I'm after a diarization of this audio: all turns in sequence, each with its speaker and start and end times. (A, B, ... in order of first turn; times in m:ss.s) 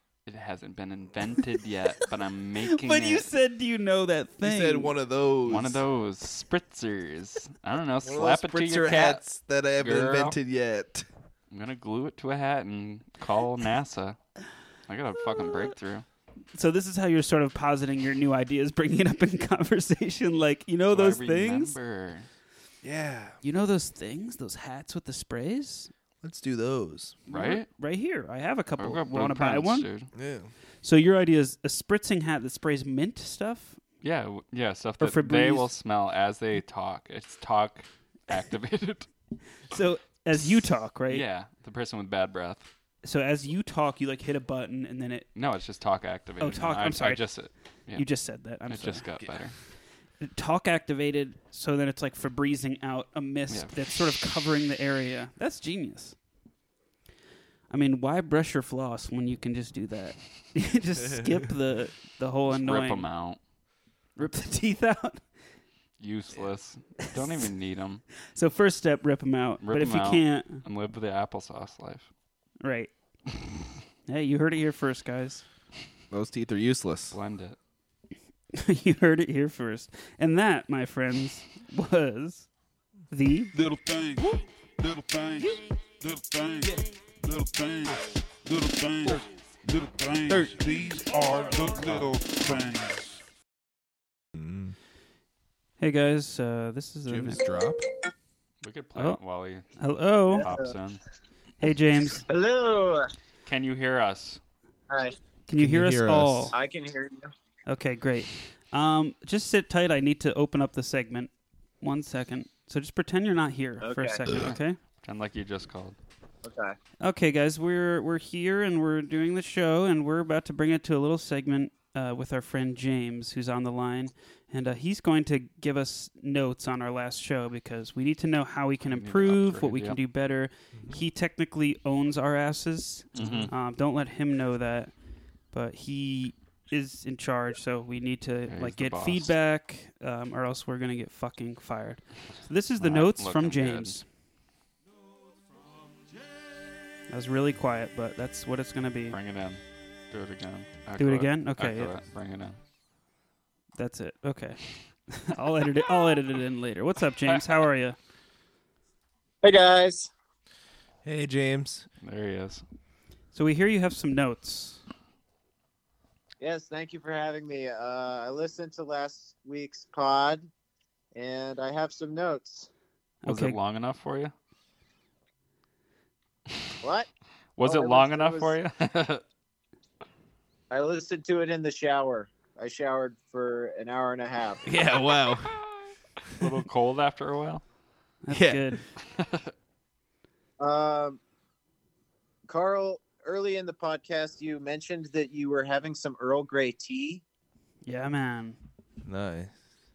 0:00.3-0:03.3 A
0:02.6-0:04.9 B
0:04.4-0:05.8 C
0:05.5-0:09.3 A
0:08.0-0:11.1 C
0:09.8-0:10.4 A
0:11.5-0:14.2 A
0:14.9-0:16.1 A
0:16.6-0:21.8 B
0:20.9-0:22.3 A
0:22.8-0:23.4 C
0:23.4-0:25.9 B
0:26.2-0:27.2 C
0:27.3-0:29.9 B
0:27.3-0:27.7 A
0:28.8-0:30.1 A
0:30.1-0:30.5 C
0:30.8-0:33.8 B
0:34.0-0:39.1 A
0:35.0-0:35.7 B
0:39.7-0:41.2 B
0:41.1-0:42.7 A
0:43.0-0:45.3 B
0:45.4-0:49.6 A
0:46.4-0:49.0 B
0:50.2-0:56.2 B
0:53.5-0:54.0 A
0:57.7-1:03.1 B
1:02.5-1:03.4 A
1:04.2-1:05.3 B
1:06.0-1:08.0 A
1:08.3-1:10.6 B
1:09.6-1:12.1 A
1:12.6-1:12.9 B
1:14.1-1:15.5 B
1:16.1-1:17.2 C
1:17.1-1:17.6 A
1:18.5-1:22.5 B
1:23.1-1:23.6 B
1:23.5-1:33.1 D
1:34.4-1:34.8 C
1:35.8-1:37.4 B
1:37.1-1:37.8 C
1:38.6-1:39.7 A
1:39.8-1:40.5 B
1:40.3-1:40.7 E
1:40.4-1:41.0 A
1:41.6-1:42.2 B
1:42.3-1:43.1 E
1:43.5-1:44.4 A
1:44.9-1:45.2 E
1:45.5-1:46.6 B
1:45.6-1:46.5 C
1:46.5-1:47.3 E
1:47.7-1:54.8 B
1:53.8-1:54.2 E
1:55.0-1:56.0 A
1:56.4-1:56.8 E
1:57.0-2:14.9 B
2:08.8-2:10.0 A
2:13.2-2:13.5 A
2:13.2-2:13.5 C
2:15.5-2:24.0 B
2:18.5-2:19.3 A
2:22.8-2:24.0 A
2:27.1-2:29.2 B
2:29.1-2:32.6 A
2:31.0-2:32.0 B
2:33.8-2:38.0 B
2:39.4-2:40.1 E
2:41.0-2:41.9 C
2:42.0-2:42.6 A
2:43.3-2:44.8 B
2:46.4-2:50.5 E
2:51.2-2:52.7 E
2:53.2-2:53.6 B
2:53.3-2:54.3 A
2:56.8-2:57.1 E
2:57.6-2:59.2 A
2:57.6-2:58.6 E
3:00.7-3:04.7 E
3:04.6-3:05.6 C
3:06.4-3:07.6 A
3:08.2-3:08.8 B
3:08.3-3:08.8 C
3:09.1-3:09.5 A
3:10.6-3:11.2 E
3:12.5-3:17.2 E
3:17.8-3:18.6 B
3:19.0-3:19.5 C